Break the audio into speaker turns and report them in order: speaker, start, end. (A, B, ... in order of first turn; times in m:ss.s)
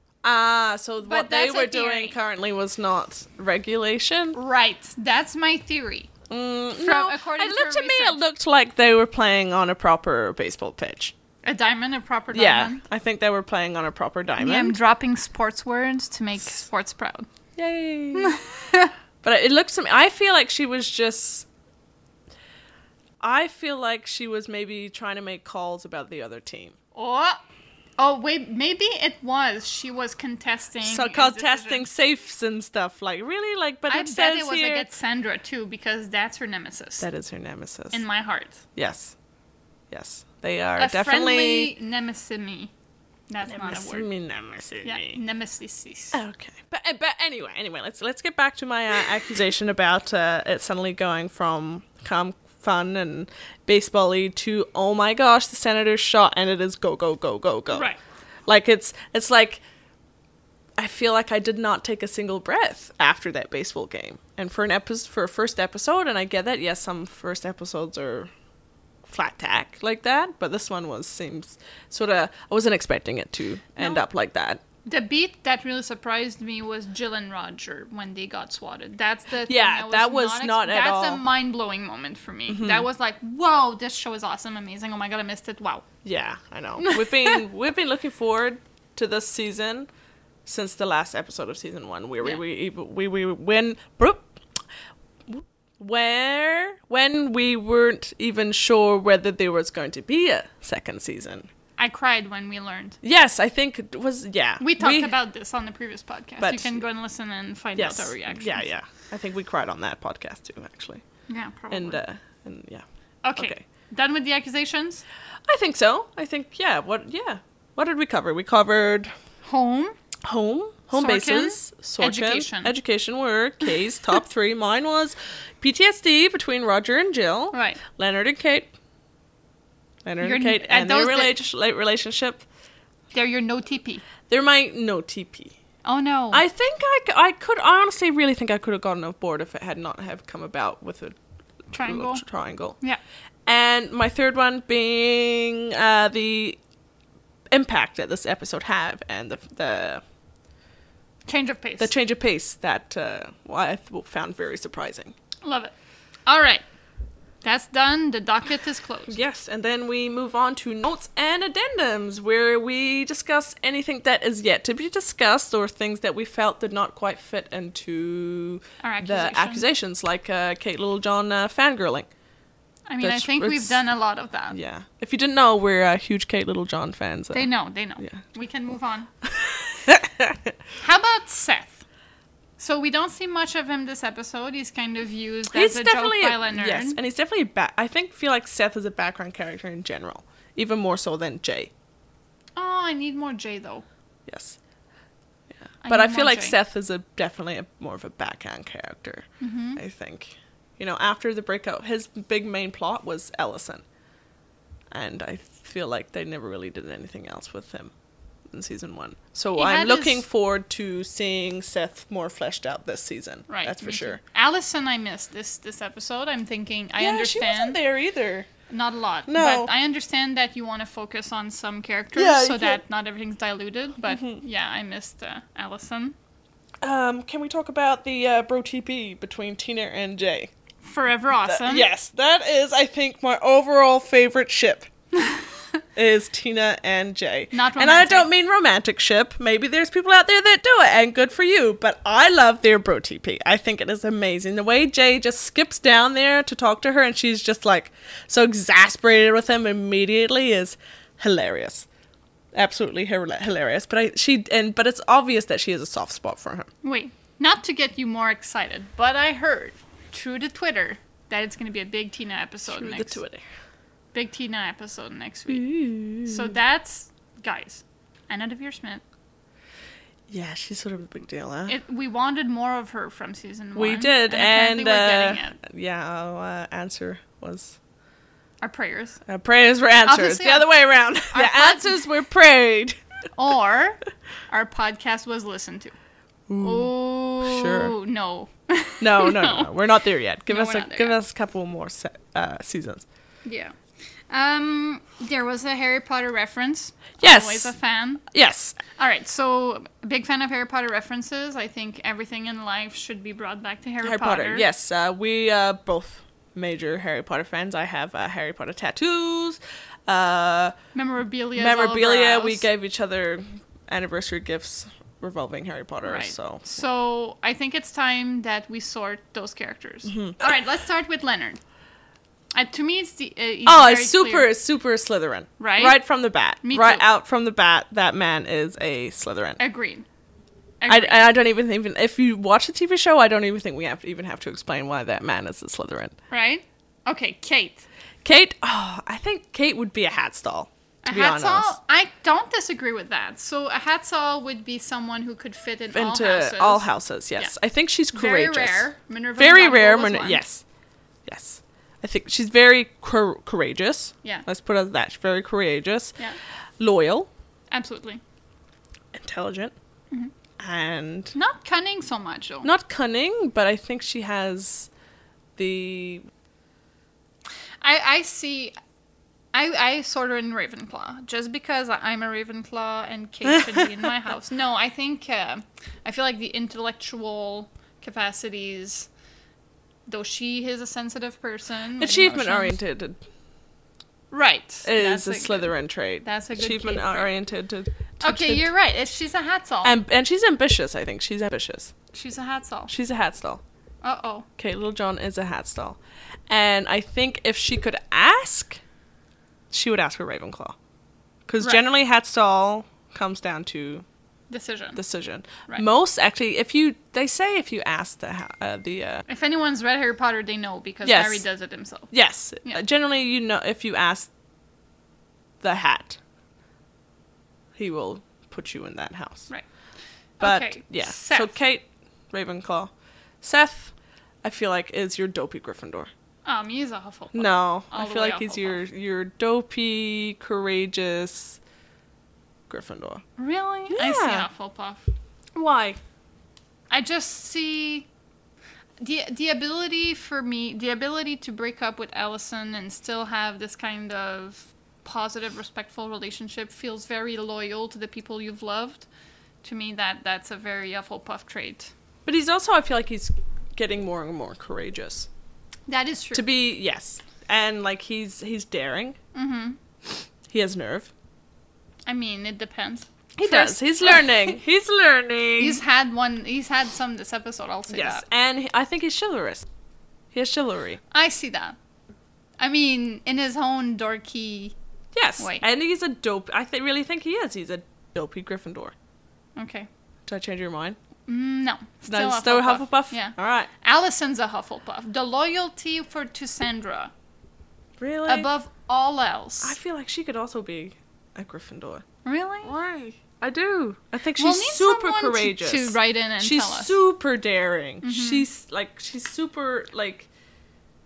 0:00.2-0:04.4 A
0:01.0-0:02.2 B
0:04.3-0:06.1 B
0:06.3-0:11.1 A
0:06.8-0:08.2 B
0:11.4-0:12.8 B
0:12.3-0:14.8 A
0:14.4-0:17.3 B
0:17.6-0:18.4 A
0:18.2-0:18.9 B
0:19.2-0:21.5 A
0:23.2-0:26.8 A
0:26.9-0:27.4 B
0:28.0-0:31.9 B
0:30.8-0:34.9 A
0:33.9-0:37.1 B
0:37.0-0:38.0 A
0:37.9-0:38.6 B
0:38.8-0:39.1 A
0:39.9-0:41.7 A
0:40.8-0:42.7 B
0:43.3-0:44.1 B
0:43.4-0:45.2 A
0:44.8-0:46.2 B
0:46.1-0:57.9 A
0:57.7-0:58.0 B
0:58.4-0:59.6 A
1:00.8-1:08.3 A
1:09.0-1:14.6 A
1:13.8-1:14.0 B
1:14.8-1:25.8 B
1:19.5-1:21.2 A
1:22.5-1:22.9 A
1:26.0-1:29.9 A
1:26.8-1:27.4 B
1:30.4-1:34.4 A
1:35.3-1:41.5 A
1:41.8-1:43.0 B
1:43.0-1:45.1 A
1:44.6-1:48.7 B
1:46.4-1:46.8 A
1:47.8-1:51.0 A
1:51.3-1:52.0 B
1:51.7-1:52.8 A
1:53.2-1:55.0 B
1:53.4-1:53.6 A
1:55.5-1:59.1 A
1:59.4-1:59.9 B
2:00.2-2:08.7 A
2:00.9-2:02.7 B
2:07.5-2:07.8 B
2:10.0-2:12.4 A
2:10.2-2:11.4 B
2:13.1-2:14.0 B
2:14.3-2:15.6 A
2:15.8-2:16.4 B
2:16.3-2:21.2 A
2:21.7-2:22.2 B
2:21.7-2:22.8 A
2:23.4-2:26.6 A
2:27.5-2:30.0 A
2:31.3-2:31.9 B
2:31.8-2:35.1 A
2:35.4-2:35.7 B
2:36.2-2:36.6 B
2:37.4-2:39.2 B
2:39.1-2:52.1 A
2:48.8-2:49.6 B
2:52.9-2:54.6 B
2:53.0-2:53.8 A
2:54.5-2:58.2 A
2:57.3-2:59.1 B
2:59.2-3:00.6 A
3:00.8-3:01.8 B
3:02.6-3:07.0 B
3:05.5-3:11.7 A
3:12.6-3:13.8 B
3:14.3-3:14.6 A
3:15.5-3:23.8 A
3:15.8-3:16.6 B
3:19.4-3:19.8 B
3:24.9-3:27.9 A
3:28.5-3:34.2 A
3:29.6-3:30.2 B
3:33.5-3:37.8 B
3:37.0-3:38.5 A
3:38.7-3:46.2 B
3:39.3-3:39.7 A
3:42.1-3:42.8 A
3:44.1-3:44.4 A
3:46.8-3:50.5 A
3:50.8-3:51.9 B
3:51.5-3:54.9 A
3:55.2-3:55.5 B
3:56.0-4:11.9 A
3:57.5-3:58.3 B
4:12.5-4:16.7 A
4:16.8-4:23.2 B
4:22.7-4:23.4 A
4:24.1-4:25.7 B
4:25.5-4:26.6 A
4:26.2-4:29.0 B
4:30.3-4:31.7 A
4:31.7-4:35.6 B
4:33.7-4:37.8 A
4:38.6-4:39.2 B
4:39.2-4:43.0 A
4:40.0-4:40.7 B
4:41.3-4:42.0 B
4:43.3-4:45.9 B
4:46.5-4:47.9 A
4:46.6-4:49.7 B
4:49.0-4:53.0 A
4:50.5-4:51.2 B
4:53.4-4:53.8 B
4:54.3-4:58.2 B
4:57.2-4:57.7 A
4:58.3-4:58.8 A
4:59.0-5:04.6 B
5:04.0-5:10.7 A
5:10.9-5:12.6 B
5:11.5-5:16.6 A
5:16.0-5:21.6 B
5:20.1-5:20.4 A
5:22.5-5:24.5 B
5:23.6-5:29.6 A
5:25.6-5:26.0 B
5:26.6-5:27.0 B
5:29.6-5:30.0 B
5:30.8-5:31.2 B
5:30.9-5:36.1 A
5:36.3-5:37.8 B
5:38.2-5:41.8 A
5:41.0-5:47.5 B
5:45.9-5:48.9 A
5:48.1-5:50.4 B
5:49.4-5:50.6 A
5:51.2-5:56.2 A
5:56.8-5:57.3 A
5:57.7-5:58.2 B
5:59.1-5:59.7 A
6:00.6-6:01.4 A
6:01.3-6:02.7 B
6:02.6-6:04.9 A
6:05.6-6:06.2 A
6:07.8-6:08.7 B
6:09.5-6:19.1 B
6:13.5-6:13.8 A
6:20.1-6:22.8 B
6:22.0-6:23.2 A
6:24.3-6:27.3 B
6:24.8-6:28.7 A
6:28.2-6:30.0 B
6:29.8-6:31.9 A
6:32.1-6:32.9 B
6:32.9-6:33.6 A
6:34.0-6:34.5 B
6:34.6-6:38.8 A
6:39.7-6:40.8 A
6:41.5-6:44.0 A
6:44.5-6:45.0 B
6:45.0-6:49.2 A
6:49.3-6:52.1 B
6:51.0-6:51.4 A
6:52.1-6:54.3 A
6:55.6-6:56.2 A
6:57.8-6:59.5 A
7:00.4-7:01.5 B
7:00.4-7:06.1 A
7:06.4-7:08.8 B
7:07.3-7:11.6 A
7:12.7-7:13.2 A
7:13.4-7:15.1 B
7:13.9-7:14.5 A
7:15.5-7:16.0 A
7:16.9-7:18.1 B
7:19.0-7:29.1 B
7:29.6-7:31.9 B
7:32.2-7:35.3 A
7:35.9-7:36.5 B
7:36.3-7:39.2 A
7:39.3-7:39.8 B
7:40.5-7:41.1 A
7:42.1-7:44.5 B
7:43.4-7:45.8 A
7:45.6-7:48.2 B
7:47.9-7:49.6 A
7:50.3-7:51.0 A
7:51.1-7:51.8 B
7:52.6-7:54.8 B
7:55.1-7:58.9 A
7:55.4-7:55.6 B
7:59.6-7:59.9 B
8:00.2-8:01.0 A
8:01.3-8:07.1 B
8:02.1-8:03.7 A
8:08.0-8:08.5 A
8:08.3-8:09.8 B
8:09.6-8:12.0 A
8:12.2-8:12.8 B
8:12.6-8:20.3 A
8:14.4-8:17.0 B
8:18.0-8:18.5 B